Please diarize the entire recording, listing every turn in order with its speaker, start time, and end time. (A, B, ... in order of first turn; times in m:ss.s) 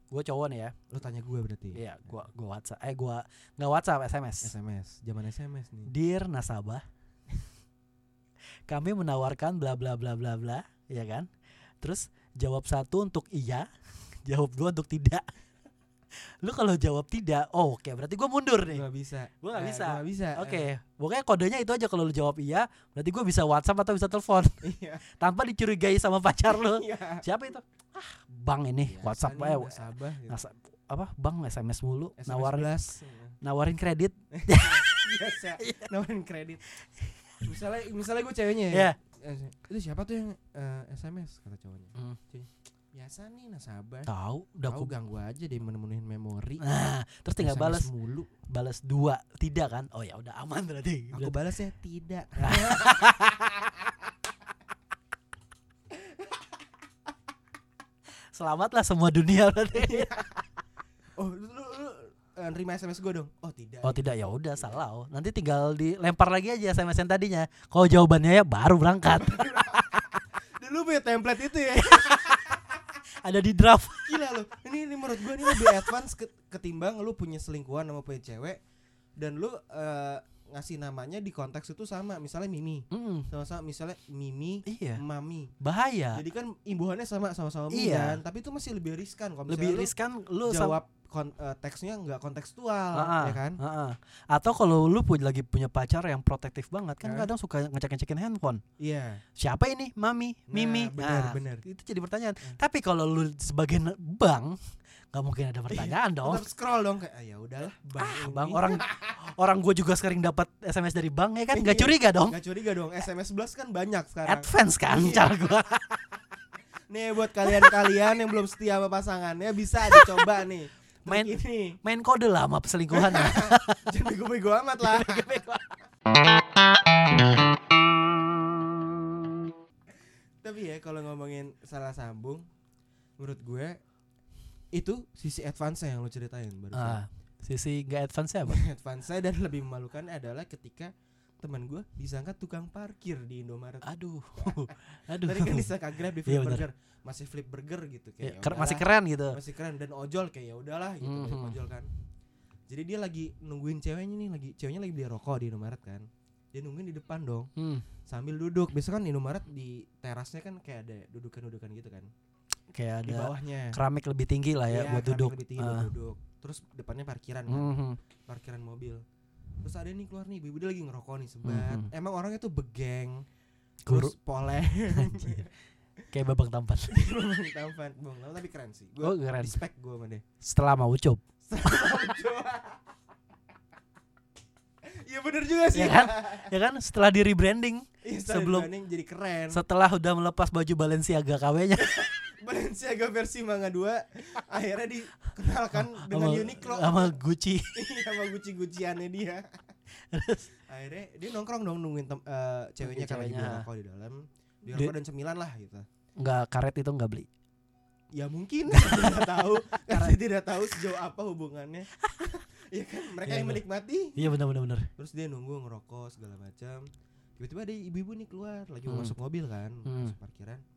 0:00.1-0:00.8 A
0:00.9-0:01.8 B
0:01.7-0:04.5 A
0:04.4-0:05.9 B
0:05.9-0:06.8 A
0:08.7-0:11.3 A
0:11.8-0:13.7 A
0:14.2-0:15.2 A
0:16.4-0:18.8 A
0:18.7-0:20.7 B
0:19.4-0:32.7 A
0:24.6-0:25.0 B
0:26.5-0:27.2 B
0:28.8-0:30.4 B
0:32.2-0:33.4 B
0:33.4-0:35.0 A
0:34.3-0:36.6 B
0:35.6-0:35.9 A
0:37.0-0:37.5 A
0:37.4-0:44.1 B
0:38.7-0:39.0 A
0:44.1-0:44.9 A
0:44.7-0:46.6 B
0:46.6-0:47.9 A
0:47.4-0:48.3 B
0:48.5-0:51.4 A
0:51.1-0:53.1 B
0:52.4-0:53.5 A
0:55.9-0:56.6 B
0:58.3-1:00.2 A
0:59.7-1:00.4 B
1:01.2-1:04.8 B
1:03.8-1:10.0 A
1:09.2-1:10.0 B
1:10.6-1:12.8 B
1:13.2-1:14.2 A
1:14.0-1:18.6 B
1:19.2-1:25.5 B
1:22.9-1:23.3 A
1:24.7-1:25.0 A
1:25.6-1:26.2 A
1:26.1-1:29.9 B
1:27.7-1:28.2 A
1:29.5-1:30.8 A
1:30.4-1:33.6 B
1:32.9-1:38.6 A
1:37.0-1:37.3 B
1:38.8-1:39.2 B
1:39.4-1:44.6 A
1:40.5-1:41.6 B
1:45.1-1:46.4 A
1:45.7-1:49.2 B
1:48.0-1:52.4 A
1:51.5-1:55.6 B
1:54.3-1:56.0 A
1:56.9-2:01.8 B
1:57.5-1:57.8 A
1:59.9-2:00.3 A
2:01.1-2:03.9 A
2:02.9-2:05.7 B
2:04.8-2:05.6 A
2:10.4-2:12.4 B
2:13.2-2:13.8 B
2:14.7-2:17.0 B
2:16.7-2:18.6 A
2:18.5-2:23.9 B
2:23.8-2:25.7 A
2:24.4-2:31.9 B
2:26.2-2:26.6 A
2:28.2-2:29.4 A
2:31.0-2:31.6 A
2:32.7-2:37.5 B
2:37.6-2:37.9 A
2:38.1-2:42.1 B
2:42.7-2:45.9 A
2:43.0-2:43.8 B
2:44.7-2:47.7 B
2:47.5-2:48.0 A
2:48.3-2:49.0 B
2:49.6-2:53.2 B
2:51.4-2:51.9 A
2:53.9-2:55.5 B
2:53.9-2:54.1 A
2:54.9-2:55.4 A
2:56.1-2:57.0 A
2:56.9-3:00.2 B
2:59.0-2:59.6 A
3:00.4-3:01.2 A
3:01.5-3:02.8 B
3:04.8-3:06.5 B
3:05.7-3:08.7 A
3:08.0-3:09.6 B
3:09.5-3:12.0 A
3:11.8-3:17.2 B
3:15.7-3:17.7 A
3:17.8-3:19.6 B
3:20.1-3:20.5 A
3:20.7-3:25.8 B
3:22.8-3:23.7 A
3:26.2-3:27.3 A
3:28.2-3:34.3 B
3:28.7-3:30.2 A
3:33.2-3:33.6 A
3:34.2-3:34.9 A
3:35.0-3:40.6 B
3:38.9-3:39.1 A
3:39.9-3:40.2 A